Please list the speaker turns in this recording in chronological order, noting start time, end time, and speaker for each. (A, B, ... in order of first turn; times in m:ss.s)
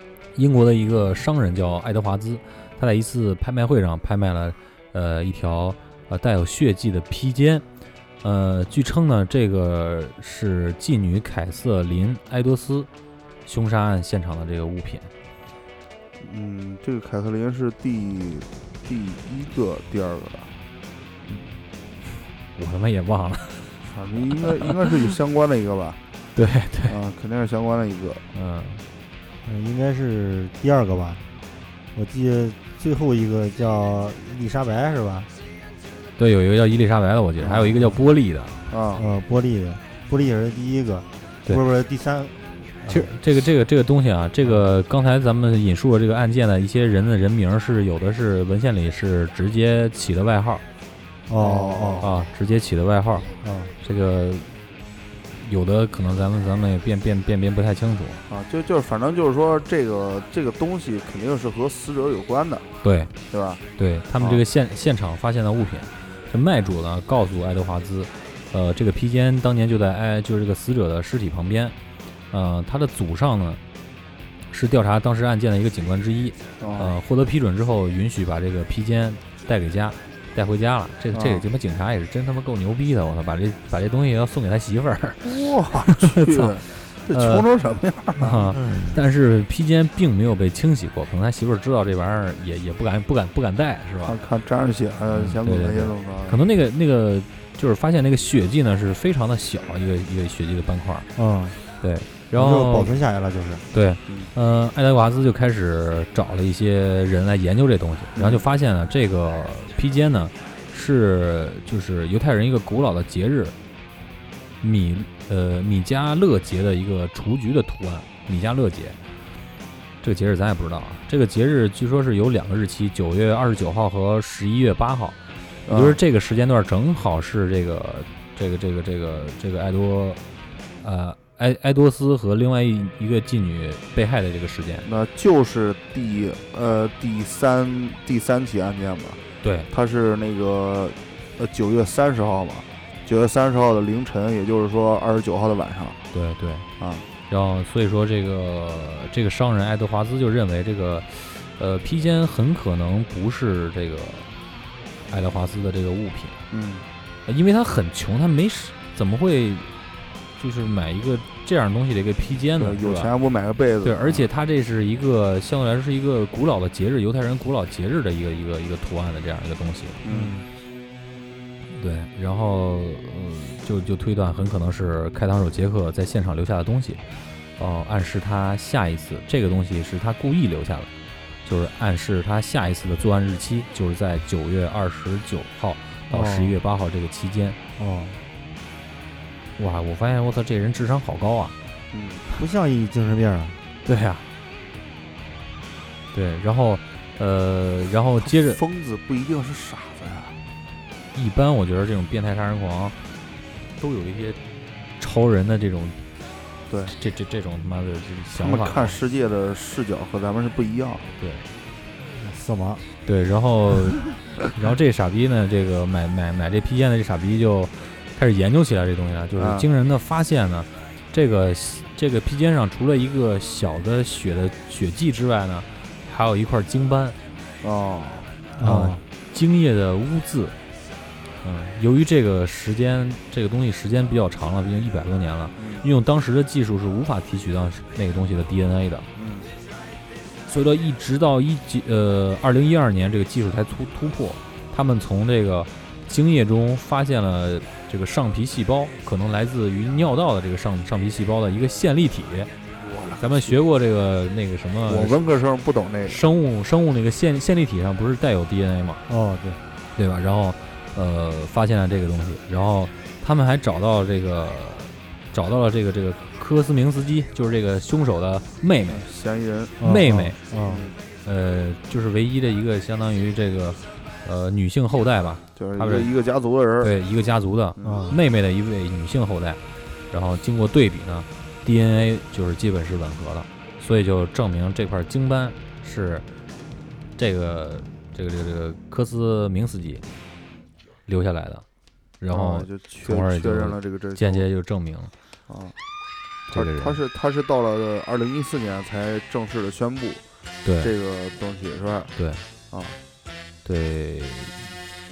0:00.4-0:07.6 A
0:08.2-0:12.9 A
0:13.4-0:15.1 A
0:16.2-0:20.5 B
0:22.6-0:23.8 A
0:23.9-0:26.0 B
0:24.4-0:24.7 A
0:26.4-0:27.0 A
0:26.9-0:28.2 B
0:28.3-0:28.8 A
0:29.4-0:31.2 C
0:31.9-0:35.3 C
0:36.2-0:38.6 A
0:37.4-0:38.0 C
0:38.7-0:39.0 B
0:39.0-0:43.1 C
0:42.9-0:50.6 A
0:51.3-0:52.1 C
0:51.4-0:52.1 B
0:52.0-0:53.3 A
0:53.4-0:53.7 C
0:53.8-0:54.5 A
0:55.4-0:58.2 A
0:58.3-1:02.7 B
1:02.8-1:03.1 A
1:03.3-1:03.6 B
1:03.8-1:11.8 A
1:04.2-1:04.4 B
1:12.3-1:13.6 A
1:14.5-1:27.4 A
1:16.6-1:16.9 B
1:21.1-1:21.4 B
1:25.2-1:28.4 B
1:28.2-1:34.2 A
1:28.6-1:29.0 C
1:34.0-1:36.4 B
1:35.1-1:41.1 A
1:41.2-1:41.6 C
1:41.8-1:43.0 A
1:42.3-1:43.6 C
1:43.7-1:53.6 A
1:44.1-1:44.3 B
1:48.1-1:48.4 B
1:54.6-1:59.0 A
2:00.0-2:10.2 A
2:05.6-2:06.0 B
2:10.8-2:14.9 A
2:14.8-2:26.0 B
2:19.4-2:19.7 A
2:26.1-2:26.7 A
2:26.8-2:27.1 B
2:27.3-2:34.3 A
2:35.1-2:36.4 A
2:36.5-2:36.9 B
2:37.2-2:39.7 A
2:40.4-2:43.1 A
2:42.6-2:44.2 B
2:43.8-2:50.0 A
2:50.0-2:50.4 B
2:50.1-2:50.4 C
2:51.7-2:57.0 A
2:57.6-3:00.9 A
3:01.4-3:07.6 A
3:06.1-3:06.6 C
3:07.8-3:08.2 C
3:09.6-3:11.6 A
3:11.9-3:12.2 B
3:12.4-3:13.6 C
3:13.8-3:14.2 A
3:16.1-3:18.6 A
3:18.2-3:20.4 B
3:21.1-3:23.0 A
3:23.8-3:24.4 A
3:25.0-3:26.0 A
3:26.7-3:26.9 B
3:26.9-3:29.0 A
3:28.3-3:31.1 B
3:31.2-3:31.5 A
3:32.2-3:32.8 C
3:33.0-3:47.2 A
3:39.4-3:39.7 B
3:47.6-3:48.3 B
3:48.6-3:49.0 C
3:48.6-3:50.6 A
3:51.4-3:59.1 A
3:55.6-3:55.8 B
3:59.2-3:59.5 B
4:00.5-4:12.5 A
4:12.8-4:13.6 B
4:13.2-4:15.2 A
4:14.8-4:16.2 B
4:16.1-4:19.0 A
4:19.1-4:19.6 C
4:20.0-4:29.0 A
4:28.9-4:29.8 B
4:29.8-4:30.8 C
4:29.8-4:30.4 A
4:30.6-4:31.0 B
4:31.2-4:36.1 A
4:35.6-4:36.9 B
4:36.8-4:46.2 A
4:37.8-4:38.1 B
4:37.8-4:38.2 C
4:47.2-4:50.0 A
4:51.1-4:51.6 A
4:52.2-4:55.1 A
4:52.3-4:54.5 B
4:55.5-4:55.8 B
4:56.5-4:57.0 A
4:56.5-5:00.2 B
5:00.6-5:00.9 A
5:00.8-5:02.1 B
5:02.2-5:02.4 A
5:02.7-5:03.0 B
5:03.6-5:04.7 A